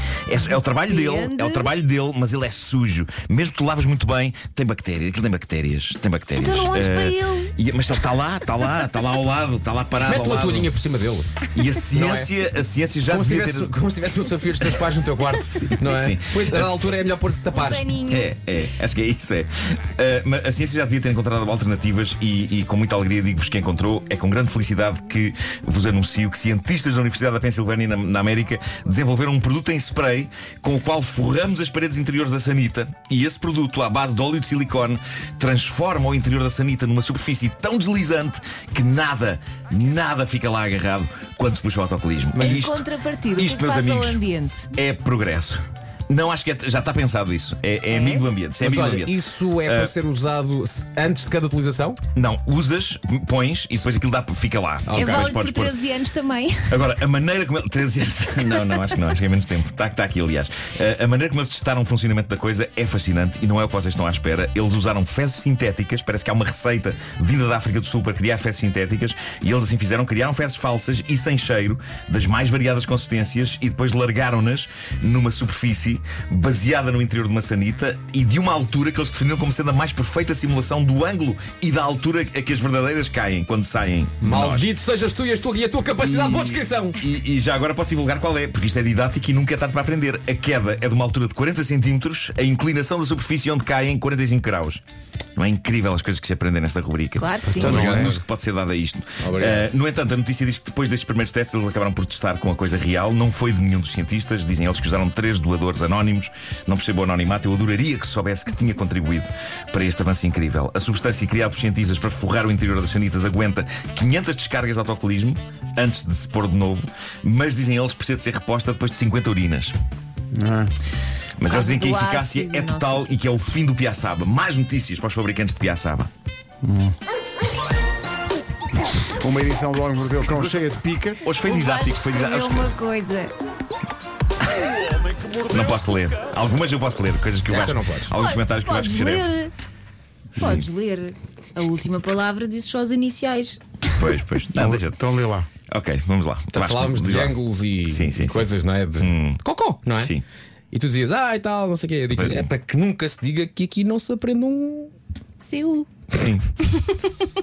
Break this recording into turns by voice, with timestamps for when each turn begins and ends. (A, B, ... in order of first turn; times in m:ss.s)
0:00.3-0:10.7 A
0:00.7-0:01.7 B
0:06.4-0:07.5 B
0:10.0-0:11.3 C
0:11.5-0:13.7 A
0:11.9-0:12.3 C
0:13.1-0:17.9 C
0:15.8-0:17.0 A
0:17.5-0:18.3 B
0:18.0-0:44.2 A
0:42.3-0:42.6 C
0:42.4-0:44.7 B
0:44.7-0:49.9 A
0:47.9-0:48.2 B
0:48.6-0:52.0 C
0:52.1-0:55.8 A
0:54.9-0:55.3 C
0:54.9-0:56.8 B
0:56.7-1:24.7 A
1:24.2-1:27.0 C
1:26.0-1:34.8 A
1:35.4-1:59.8 A
1:37.2-1:37.9 B
1:37.5-1:38.2 C
1:37.8-1:38.2 D
1:39.2-1:39.7 C
2:00.3-2:00.7 D
2:01.4-2:06.1 A
2:01.5-2:03.0 B
2:06.6-2:06.9 D
2:09.2-2:11.2 D
2:10.0-2:10.7 A
2:11.2-2:12.7 A
2:11.4-2:13.3 B
2:15.4-2:19.3 A
2:17.5-2:18.1 C
2:18.2-2:19.5 B
2:20.4-2:20.7 A
2:20.4-2:24.1 B
2:24.0-2:25.0 A
2:24.5-2:25.5 D
2:25.7-2:29.4 A
2:26.5-2:30.1 C
2:30.7-2:34.9 C
2:32.1-2:32.5 A
2:35.4-2:35.9 B
2:36.1-2:36.4 A
2:36.6-2:37.1 B